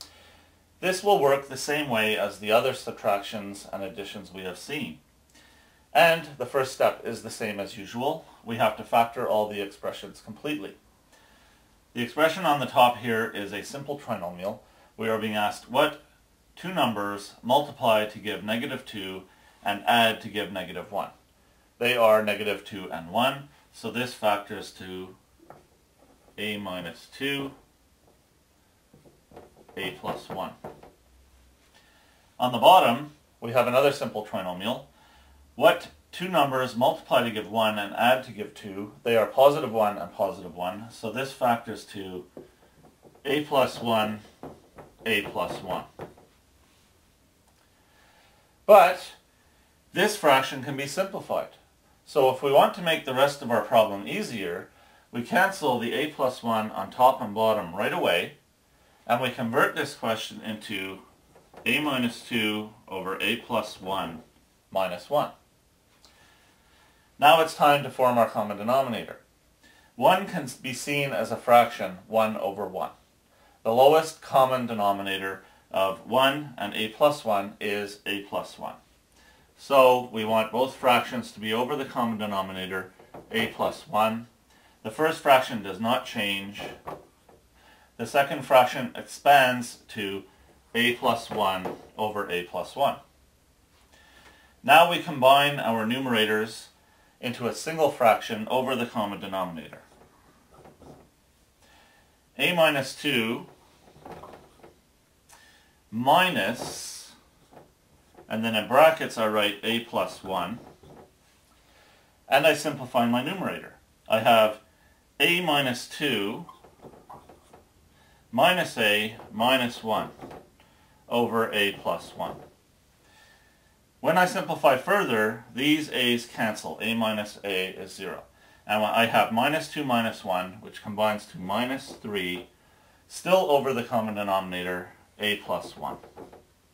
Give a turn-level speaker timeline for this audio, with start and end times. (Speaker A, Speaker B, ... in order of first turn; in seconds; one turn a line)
Speaker A: 0.8-5.0
Speaker A: 5.9-10.8
Speaker A: 11.9-16.0
Speaker A: 16.6-21.1
Speaker A: 21.8-25.2
Speaker A: 26.4-27.6
Speaker A: 29.8-30.6
Speaker A: 32.4-34.9
Speaker A: 35.6-42.3
Speaker A: 43.2-44.2
Speaker A: 45.0-45.9
Speaker A: 48.7-49.2
Speaker A: 49.9-58.4
Speaker A: 59.1-61.0
Speaker A: 61.6-65.3
Speaker A: 67.2-69.2
Speaker A: 70.0-72.9
Speaker A: 73.6-78.8
Speaker A: 79.6-84.3
Speaker A: 84.8-86.8
Speaker A: 88.0-93.0
Speaker A: 94.6-99.8
Speaker A: 102.4-103.5
Speaker A: 105.9-107.1
Speaker A: 108.3-110.6
Speaker A: 112.3-114.6
Speaker A: 115.2-116.5
Speaker A: 118.3-120.1
Speaker A: 121.1-122.4
Speaker A: 124.0-132.5
Speaker A: 133.1-136.0